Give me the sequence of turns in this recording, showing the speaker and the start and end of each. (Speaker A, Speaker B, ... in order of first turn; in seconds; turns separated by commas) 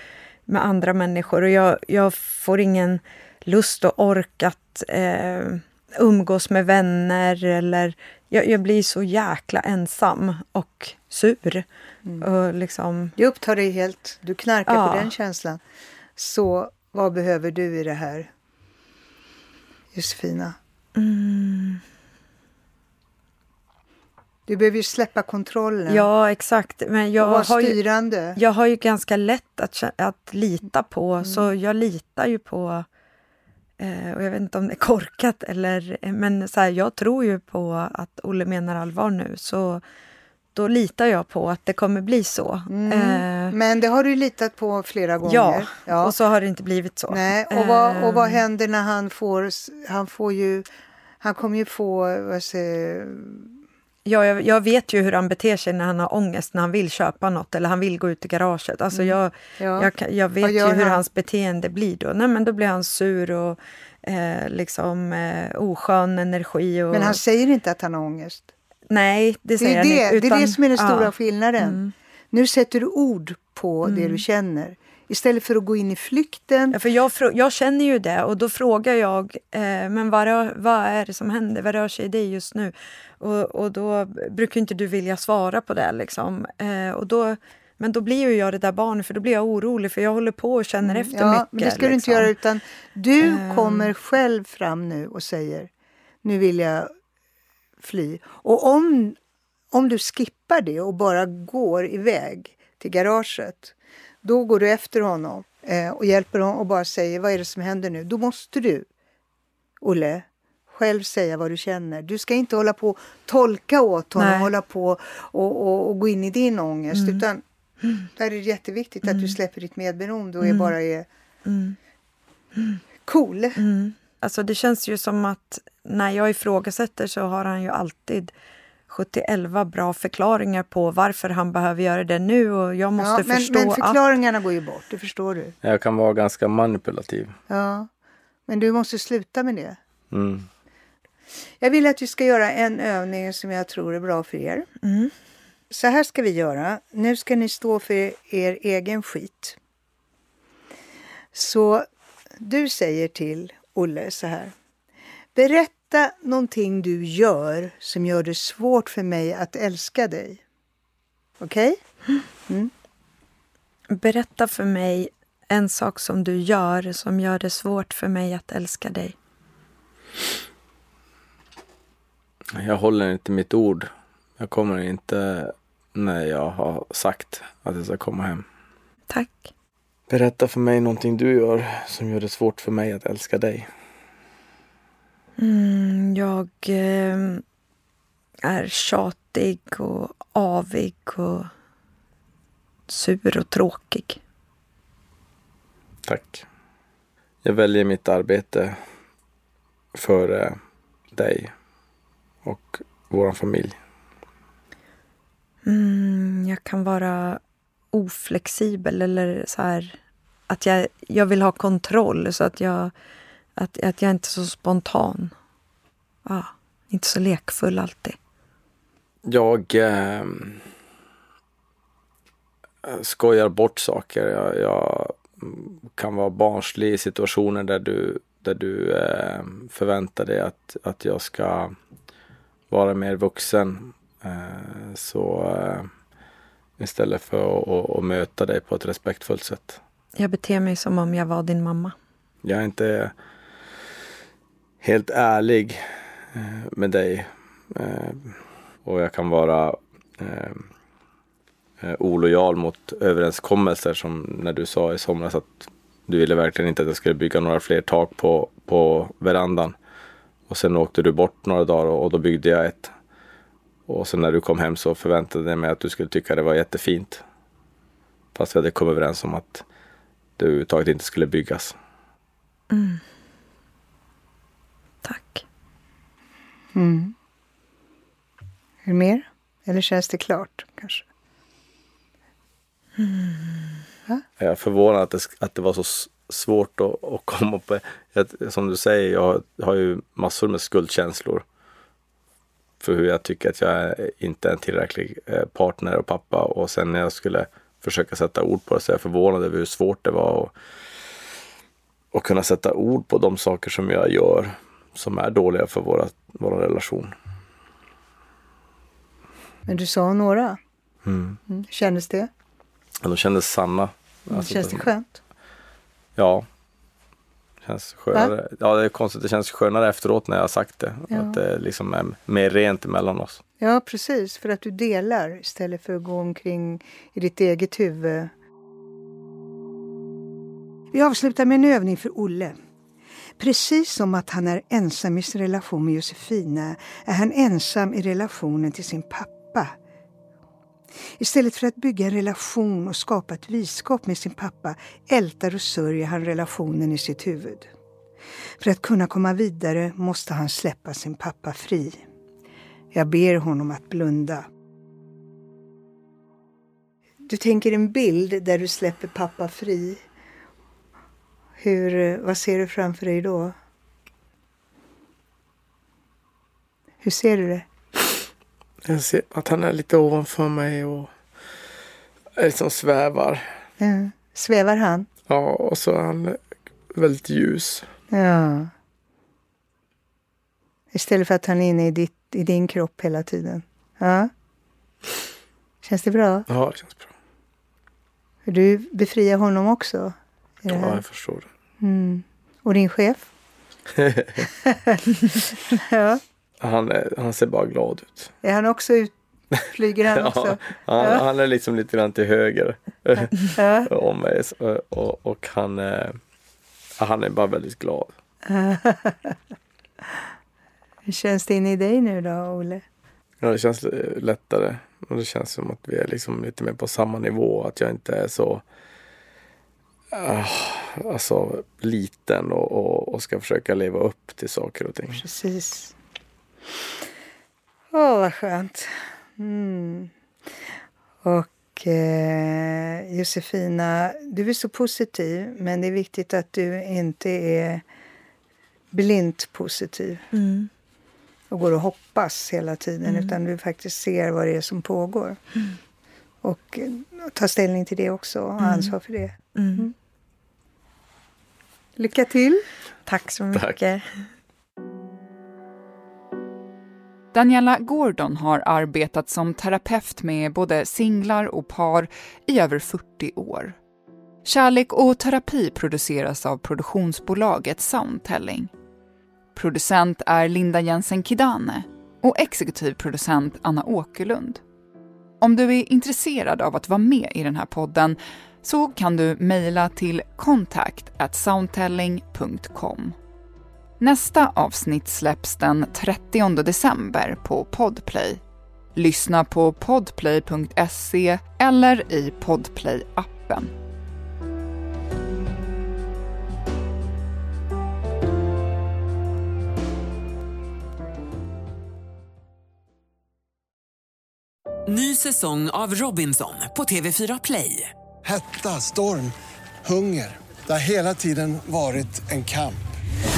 Speaker A: 0.5-11.6, Speaker A: 12.2-13.1, Speaker B: 13.2-15.6, Speaker A: 14.7-15.1, Speaker B: 16.2-18.3, Speaker B: 19.9-20.6, Speaker A: 20.9-21.8, Speaker B: 24.5-26.1, Speaker A: 25.9-27.8, Speaker B: 27.2-28.4, Speaker A: 28.3-32.8, Speaker B: 31.2-31.5, Speaker A: 33.8-39.8, Speaker A: 40.5-43.5, Speaker B: 42.7-46.1, Speaker A: 45.2-48.4, Speaker B: 47.1-50.6, Speaker B: 51.2-53.5, Speaker A: 54.0-67.2, Speaker B: 58.9-61.0, Speaker B: 66.9-68.5, Speaker A: 68.9-71.9, Speaker B: 69.6-71.8, Speaker B: 72.3-76.8, Speaker A: 73.8-74.2, Speaker A: 76.7-92.3, Speaker B: 90.8-95.7, Speaker A: 93.2-93.9, Speaker B: 96.2-96.9, Speaker B: 97.8-99.2, Speaker B: 99.7-108.9, Speaker B: 109.8-117.4, Speaker A: 114.2-114.5, Speaker A: 116.9-117.2, Speaker B: 118.2-121.1, Speaker A: 119.0-119.3, Speaker A: 120.4-120.7, Speaker A: 121.5-121.8, Speaker B: 123.0-123.6, Speaker A: 123.5-128.3, Speaker A: 128.9-134.0, Speaker B: 133.0-135.5, Speaker C: 135.6-137.3, Speaker B: 137.5-137.9, Speaker B: 138.5-139.8, Speaker C: 140.1-140.5, Speaker B: 141.6-144.7, Speaker A: 144.8-145.1, Speaker B: 145.7-149.6, Speaker B: 151.3-151.9, Speaker B: 152.4-154.5, Speaker B: 155.3-160.4, Speaker B: 161.4-161.8, Speaker A: 163.9-169.1, Speaker C: 172.5-178.4, Speaker A: 179.1-179.5, Speaker C: 180.1-183.7, Speaker A: 185.4-187.4, Speaker A: 188.4-191.5, Speaker A: 192.9-194.2, Speaker C: 196.0-196.4, Speaker C: 197.4-198.8, Speaker C: 199.9-200.6, Speaker C: 201.1-201.5, Speaker C: 202.4-203.8, Speaker A: 205.6-207.4, Speaker A: 207.9-210.0, Speaker A: 210.5-212.9, Speaker A: 213.6-215.3, Speaker A: 216.2-218.2, Speaker C: 219.2-220.7, Speaker C: 222.8-231.7, Speaker C: 232.7-235.9, Speaker C: 236.8-239.8, Speaker A: 240.2-241.9, Speaker C: 242.4-243.1, Speaker C: 244.8-250.7, Speaker C: 251.8-259.8, Speaker C: 260.5-262.9, Speaker C: 263.9-267.2, Speaker C: 268.3-269.6, Speaker C: 270.4-271.7, Speaker A: 272.7-273.0, Speaker A: 275.0-275.4, Speaker B: 276.7-277.1, Speaker B: 278.8-281.0, Speaker A: 283.0-283.8, Speaker C: 284.4-291.4, Speaker C: 292.8-300.5, Speaker C: 302.1-307.1, Speaker B: 309.6-310.6, Speaker C: 311.0-311.4, Speaker B: 311.5-312.3, Speaker C: 313.0-314.9, Speaker B: 314.3-315.2, Speaker C: 316.2-316.4, Speaker C: 317.6-323.4, Speaker B: 321.1-321.4, Speaker B: 323.6-328.3, Speaker B: 330.9-332.6, Speaker B: 333.4-339.7, Speaker B: 341.2-347.7, Speaker B: 348.6-352.0, Speaker B: 352.9-354.5, Speaker B: 357.2-360.0, Speaker B: 361.6-363.6, Speaker B: 367.0-367.7, Speaker C: 368.8-371.1, Speaker C: 372.4-373.6, Speaker B: 373.8-375.1, Speaker C: 375.3-377.9, Speaker B: 378.1-378.7, Speaker B: 380.9-384.3, Speaker B: 385.8-386.5, Speaker C: 386.5-387.1, Speaker B: 388.4-391.0, Speaker C: 390.7-391.5, Speaker B: 391.8-393.3, Speaker C: 394.0-394.5, Speaker B: 394.6-395.0, Speaker B: 395.7-396.2, Speaker C: 396.6-398.3, Speaker B: 398.4-401.2, Speaker C: 400.1-406.2, Speaker B: 403.6-403.9, Speaker C: 407.0-408.1, Speaker B: 408.4-409.4, Speaker B: 411.1-412.8, Speaker C: 413.4-418.6, Speaker C: 420.1-425.2, Speaker B: 425.1-425.9, Speaker B: 427.9-430.1, Speaker B: 431.2-437.8, Speaker B: 438.9-440.3, Speaker A: 440.3-440.7, Speaker B: 441.5-445.4, Speaker A: 443.1-443.3, Speaker B: 446.4-449.9, Speaker A: 448.6-448.9, Speaker A: 449.5-449.9, Speaker B: 452.0-452.6, Speaker A: 453.1-454.0, Speaker D: 457.3-463.8, Speaker D: 464.4-468.7, Speaker D: 469.5-474.6, Speaker D: 475.4-483.1, Speaker D: 484.0-488.4, Speaker D: 488.9-493.7, Speaker E: 504.9-507.9, Speaker F: 508.2-512.8